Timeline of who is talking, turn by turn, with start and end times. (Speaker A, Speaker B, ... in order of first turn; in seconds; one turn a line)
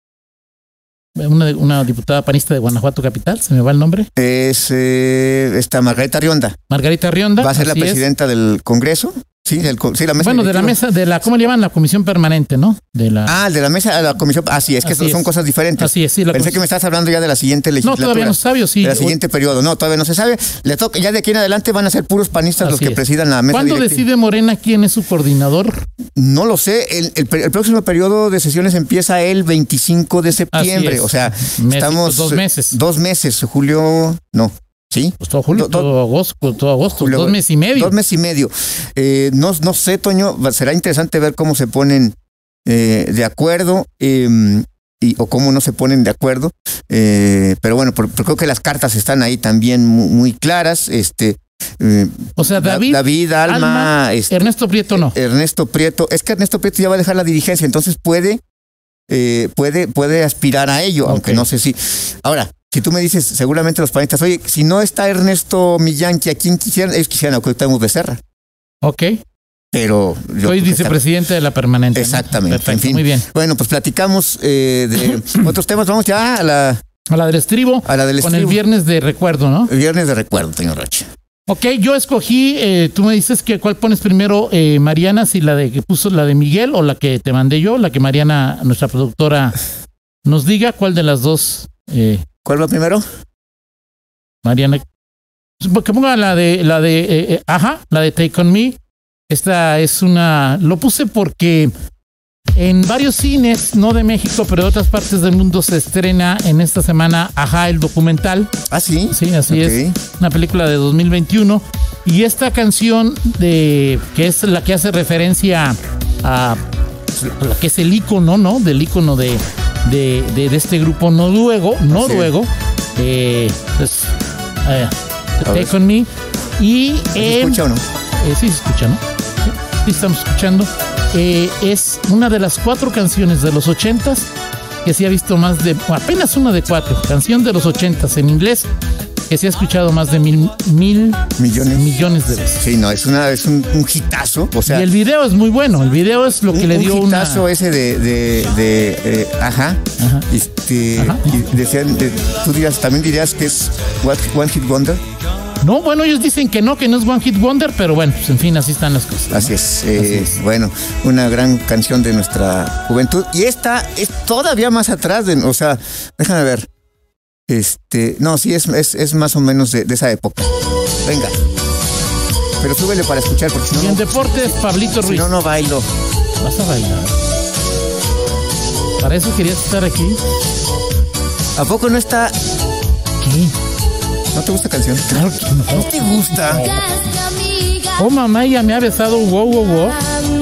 Speaker A: 1.2-4.1
Speaker B: 4.2-6.6
Speaker A: 6.7-8.1
Speaker B: 7.4-10.8
Speaker A: 10.2-13.4
Speaker B: 13.3-24.0
Speaker A: 14.8-16.6
Speaker A: 17.8-19.2
Speaker A: 22.6-25.8
Speaker B: 26.2-35.9
Speaker A: 30.5-32.8
Speaker A: 35.2-37.9
Speaker B: 36.9-58.4
Speaker A: 52.4-55.1
Speaker B: 59.1-68.2
Speaker A: 61.0-61.5
Speaker A: 68.8-69.2
Speaker B: 69.7-71.0
Speaker A: 70.4-73.3
Speaker B: 72.0-76.8
Speaker A: 77.1-79.7
Speaker B: 77.8-78.6
Speaker B: 79.7-81.1
Speaker A: 81.5-89.6
Speaker A: 90.2-92.2
Speaker B: 92.5-93.1
Speaker A: 94.4-94.8
Speaker A: 95.6-98.8
Speaker A: 99.3-101.7
Speaker A: 102.5-108.5
Speaker B: 108.7-110.0
Speaker A: 109.1-116.6
Speaker A: 117.2-127.7
Speaker B: 121.9-122.3
Speaker B: 125.5-125.7
Speaker B: 127.2-127.8
Speaker A: 128.2-134.3
Speaker A: 134.8-138.7
Speaker A: 139.3-142.7
Speaker B: 141.4-141.8
Speaker B: 142.6-144.9
Speaker A: 144.7-147.5
Speaker B: 146.5-155.0
Speaker A: 150.0-150.3
Speaker A: 151.0-151.4
Speaker A: 155.6-160.4
Speaker B: 159.3-166.7
Speaker B: 167.5-170.5
Speaker B: 171.0-171.4
Speaker B: 172.6-174.4
Speaker A: 173.7-175.3
Speaker B: 175.0-175.9
Speaker A: 176.4-177.2
Speaker A: 179.0-180.2
Speaker B: 181.6-182.4
Speaker A: 183.2-183.5
Speaker B: 184.3-186.7
Speaker A: 185.1-187.0
Speaker A: 187.9-190.0